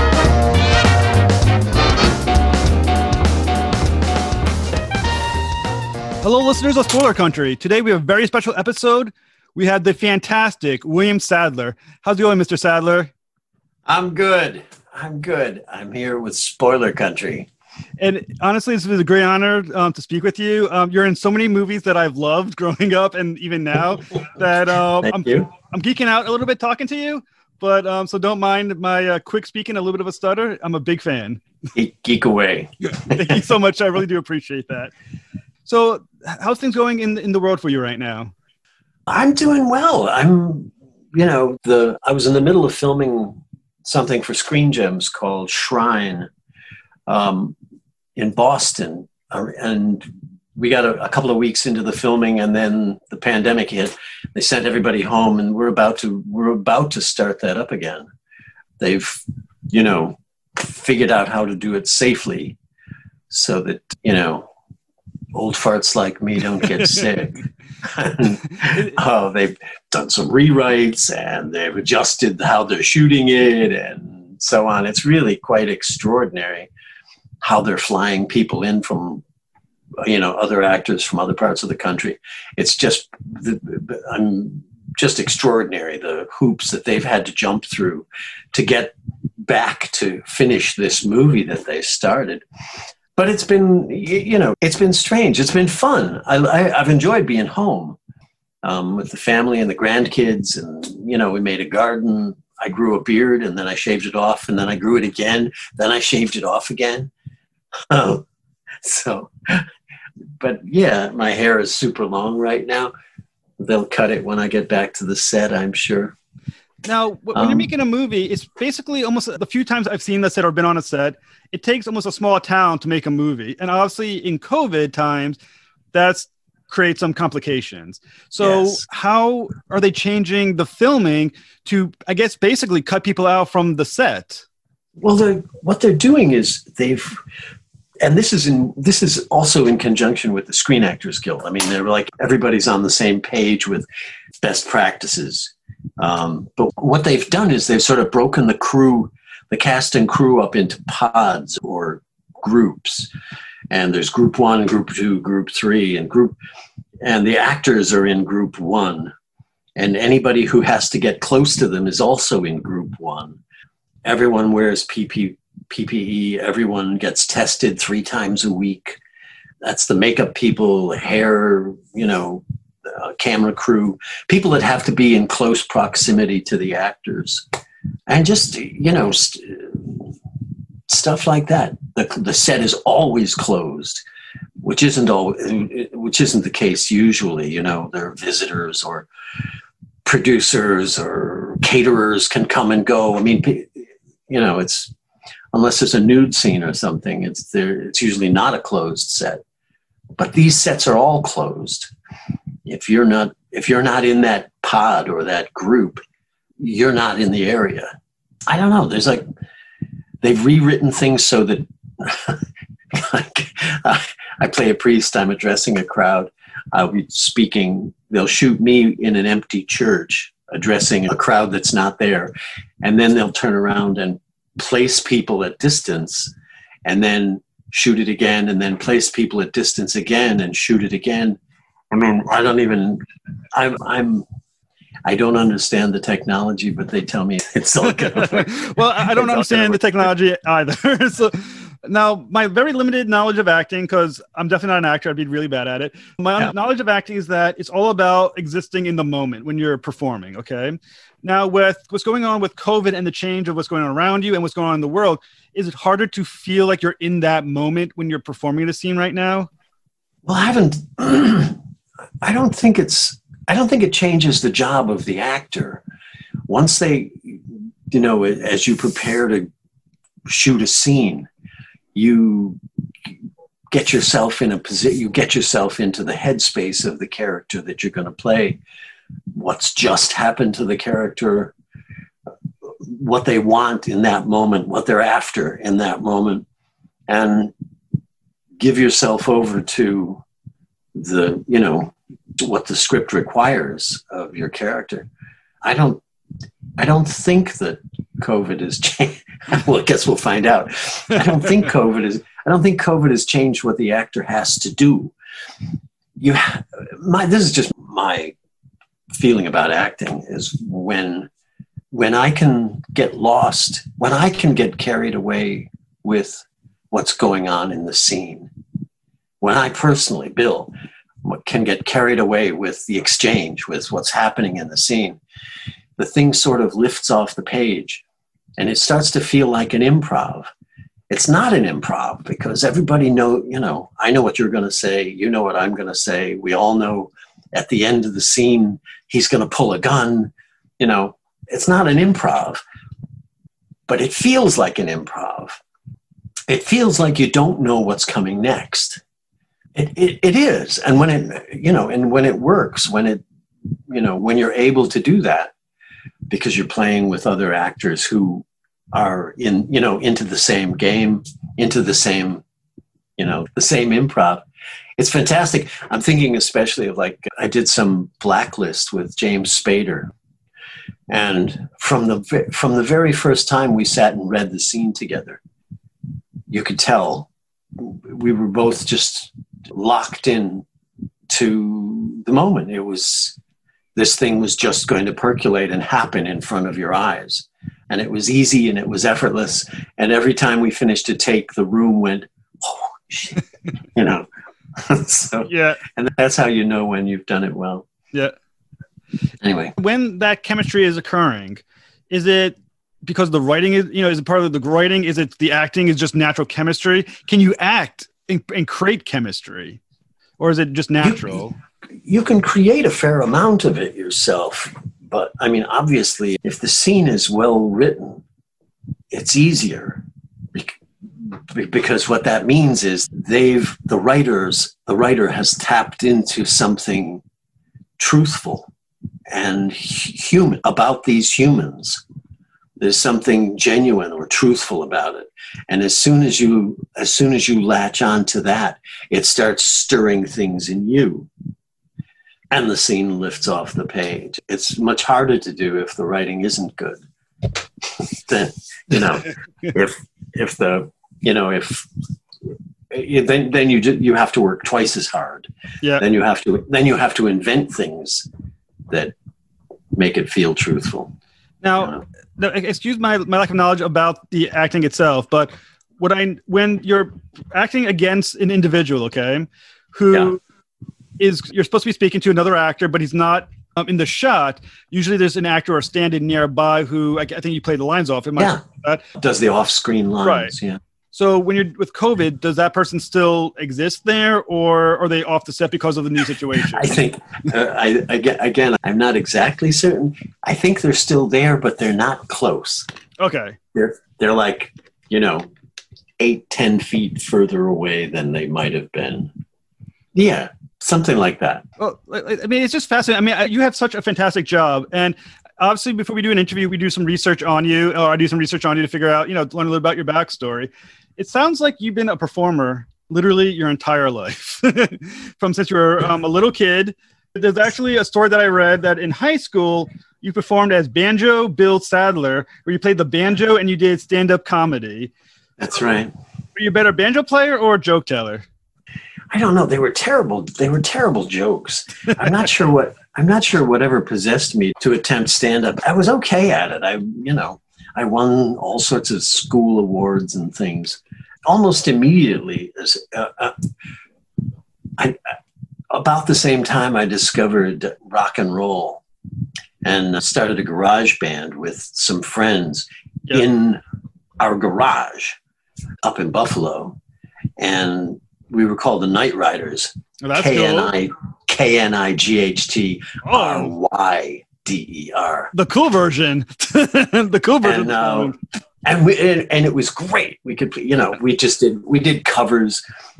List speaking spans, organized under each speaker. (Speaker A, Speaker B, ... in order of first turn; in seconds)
Speaker A: 6.2-13.1, 18.0-31.4, 33.1-34.9, 35.6-38.3, 116.8-125.4, 125.9-134.4, 238.1-259.5, 395.5-395.8, 399.8-409.8, 410.4-411.5, 461.6-470.4, 471.2-479.0, 480.2-480.5, 481.1-487.0, 493.2-493.6, 501.8-525.1, 526.5-528.4, 560.2-560.9, 563.2-563.7, 565.5-568.4
Speaker B: 13.8-17.5, 25.0-25.5, 31.7-33.4, 39.1-46.3, 47.1-47.5, 48.1-58.1, 58.8-62.6, 63.3-64.5, 65.3-76.7, 77.4-79.2, 80.0-92.4, 93.2-98.0, 98.6-107.1, 107.9-108.2, 108.8-109.7, 110.4-112.9, 113.6-116.1, 117.3-117.7, 128.4-128.8, 135.0-137.2, 138.0-143.9, 144.4-153.1, 153.7-156.3, 157.0-159.1, 159.8-163.4, 164.0-169.0, 169.6-177.4, 178.1-180.1, 180.9-184.0, 184.6-189.1, 190.0-194.9, 195.5-199.4, 200.2-201.9, 202.7-206.0, 206.6-207.9, 208.5-209.3, 210.2-226.3, 226.8-231.4, 231.9-234.3, 235.0-240.1, 260.2-261.6, 262.2-265.8, 266.5-269.5, 270.3-271.3, 271.9-272.6, 273.7-278.6, 279.3-281.5, 282.8-286.4, 287.1-287.5, 288.6-290.2, 290.9-295.1, 295.6-296.0, 296.8-305.1, 306.2-308.3, 309.1-311.3, 311.9-318.5, 319.4-325.2, 326.0-328.0, 328.6-330.5, 331.1-342.6, 343.9-345.6, 346.5-349.0, 349.7-353.2, 353.9-355.5, 356.3-362.4, 363.2-364.4, 365.0-370.1, 371.1-375.4, 376.5-380.6, 381.3-383.4, 383.9-393.4, 393.9-397.9, 399.4-399.7, 411.0-411.4, 412.0-418.2, 419.1-420.0, 420.5-427.2, 428.0-428.7, 429.3-432.0, 432.8-441.3, 442.5-447.0, 448.0-451.9, 452.9-458.3, 458.9-459.1, 459.9-461.1, 461.8-462.0, 478.4-478.6, 479.1-480.8, 486.7-492.9, 493.7-495.5, 496.2-499.3, 500.1-501.6, 525.6-526.1, 529.3-543.5, 545.0-545.3, 545.9-549.0, 549.8-553.8, 554.4-555.4, 556.0-557.0, 557.6-565.5, 567.6-568.3, 568.8-572.8